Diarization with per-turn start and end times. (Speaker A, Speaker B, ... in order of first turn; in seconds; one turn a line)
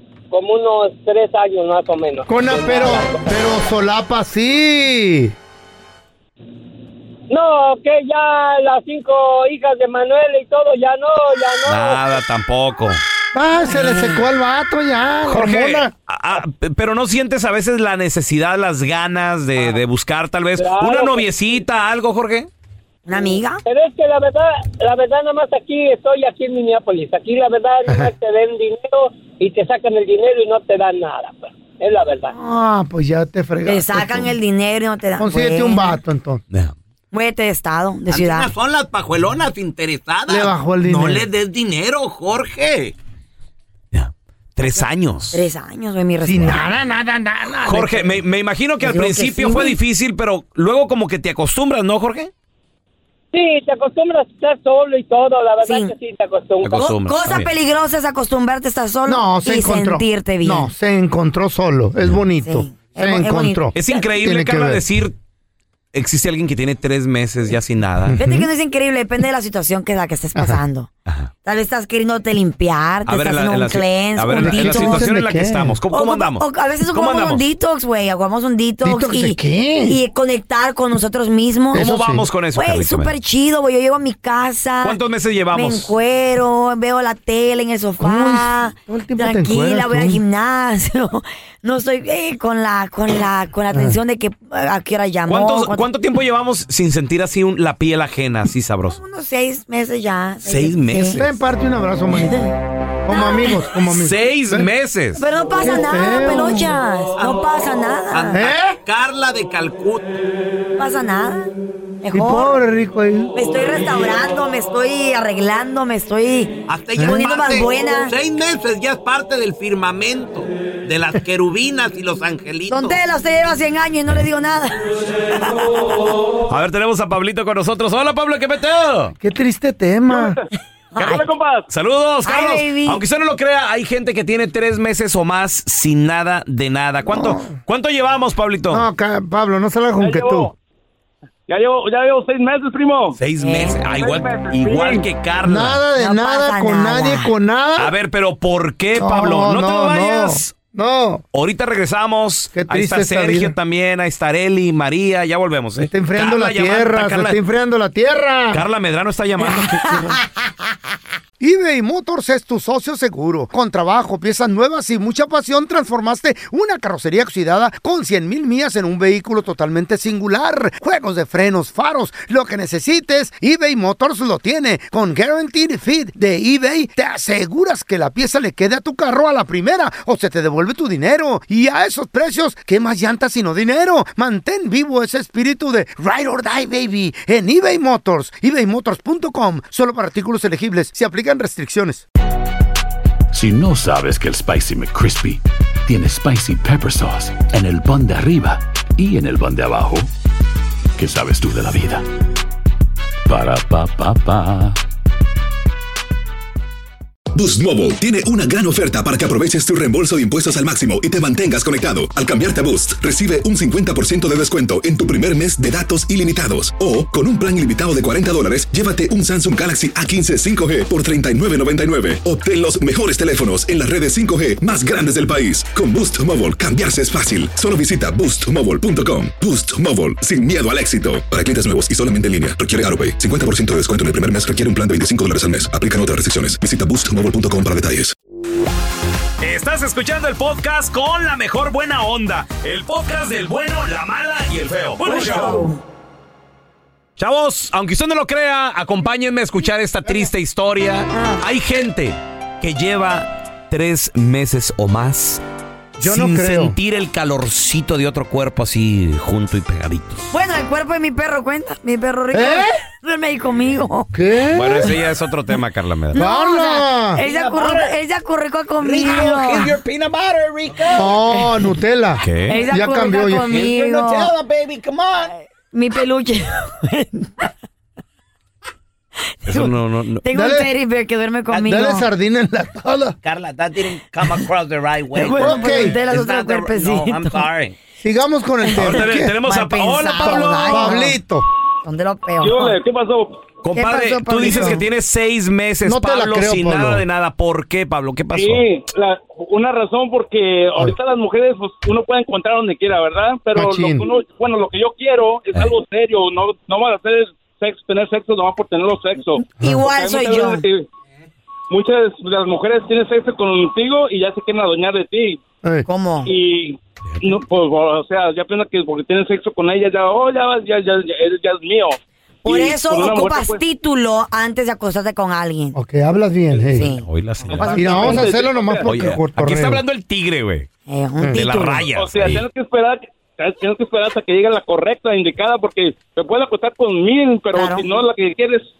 Speaker A: 0.3-3.2
Speaker B: 2.3-5.3
Speaker A: 7.3-12.2
Speaker C: 11.7-13.0
Speaker B: 13.3-15.9
Speaker D: 13.7-14.1
Speaker C: 15.3-22.5
Speaker A: 20.6-21.6
Speaker D: 23.1-23.6
Speaker A: 23.6-32.3
Speaker B: 32.3-34.3
Speaker D: 33.6-36.0
Speaker B: 35.2-36.4
Speaker D: 37.1-38.5
Speaker E: 38.1-42.9
Speaker B: 40.3-41.3
Speaker C: 43.9-45.4
Speaker D: 45.3-46.7
Speaker B: 46.2-48.1
Speaker C: 47.6-52.3
Speaker D: 48.8-49.8
Speaker A: 53.3-56.9
Speaker D: 55.6-55.9
Speaker C: 56.6-57.5
Speaker D: 56.8-60.7
Speaker B: 59.1-64.8
Speaker D: 62.4-64.0
Speaker C: 63.7-65.1
Speaker C: 65.9-68.2
Speaker B: 68.0-68.5
Speaker D: 68.2-70.9
Speaker B: 70.3-70.6
Speaker D: 71.4-75.0
Speaker C: 73.1-77.4
Speaker B: 74.4-75.8
Speaker D: 75.9-81.9
Speaker B: 78.8-80.0
Speaker B: 81.7-82.2
Speaker C: 81.7-83.1
Speaker D: 82.5-85.0
Speaker C: 84.8-85.9
Speaker D: 85.5-95.8
Speaker B: 88.0-90.2
Speaker B: 93.7-94.0
Speaker C: 95.3-99.0
Speaker D: 99.0-101.2
Speaker C: 100.4-101.3
Speaker B: 101.1-102.4
Speaker D: 102.2-102.5
Speaker B: 103.0-104.7
Speaker D: 103.1-103.5
Speaker C: 103.9-105.2
Speaker D: 105.2-108.4
Speaker B: 105.6-106.7
Speaker E: 107.2-110.2
Speaker B: 108.3-108.8
Speaker D: 110.8-112.5
Speaker B: 112.1-113.3
Speaker D: 113.3-118.1
Speaker E: 116.7-123.0
Speaker B: 117.0-117.6
Speaker D: 122.7-124.8
Speaker C: 126.5-129.1
Speaker B: 129.2-130.4
Speaker F: 130.1-130.5
Speaker D: 130.9-131.2
Speaker F: 131.1-131.7
Speaker C: 131.7-138.9
Speaker D: 132.2-133.0
Speaker B: 137.1-137.5
Speaker B: 138.7-140.5
Speaker F: 140.0-140.5
Speaker F: 141.5-143.2
Speaker C: 143.2-145.8
Speaker D: 143.4-143.8
Speaker F: 143.9-145.0
Speaker B: 145.4-147.9
Speaker D: 145.9-147.3
Speaker C: 147.8-150.5
Speaker B: 149.0-151.2
Speaker C: 151.3-157.4
Speaker B: 152.5-153.5
Speaker B: 155.8-158.6
Speaker C: 158.5-160.1
Speaker D: 159.6-160.2
Speaker B: 161.4-192.0
Speaker G: 193.3-200.1
Speaker G: 200.9-202.0
Speaker G: 203.2-204.8
Speaker H: 207.3-238.1
Speaker C: 239.4-245.7
Speaker D: 245.0-245.8
Speaker C: 247.2-255.4
Speaker D: 251.1-251.4
Speaker C: 256.0-260.3
Speaker B: 256.0-256.8
Speaker D: 260.3-264.1
Speaker B: 262.3-262.8
Speaker B: 264.1-264.9
Speaker C: 264.5-266.2
Speaker D: 266.1-269.8
Speaker B: 266.1-267.2
Speaker E: 267.2-267.9
Speaker E: 268.8-271.1
Speaker B: 270.9-273.5
Speaker C: 272.2-272.6
Speaker D: 272.5-274.3
Speaker E: 273.5-275.3
Speaker D: 275.7-277.4
Speaker D: 279.4-279.7
Speaker C: 279.5-280.2
Speaker D: 280.2-282.1
Speaker B: 280.3-280.7
Speaker B: 281.5-283.1
Speaker E: 283.2-287.7
Speaker B: 285.1-286.0
Speaker D: 285.2-287.5
Speaker B: 288.0-289.4
Speaker D: 288.7-291.2
Speaker C: 288.8-291.0
Speaker B: 290.2-291.5
Speaker D: 291.8-292.8
Speaker F: 292.4-293.4
Speaker C: 293.6-298.7
Speaker D: 293.7-294.8
Speaker B: 294.4-294.8
Speaker B: 295.8-297.0
Speaker F: 298.3-310.9
Speaker B: 303.5-304.1
Speaker D: 309.4-310.6
Speaker B: 309.6-309.9
Speaker F: 311.7-315.4
Speaker D: 315.9-316.3
Speaker F: 316.2-323.6
Speaker D: 322.4-325.8
Speaker B: 325.7-326.9
Speaker D: 326.7-328.3
Speaker C: 327.0-328.1
Speaker F: 327.6-328.9
Speaker B: 327.7-329.8
Speaker C: 328.9-330.7
Speaker D: 330.9-331.9
Speaker C: 331.3-332.4
Speaker F: 331.9-338.7
Speaker D: 337.5-337.9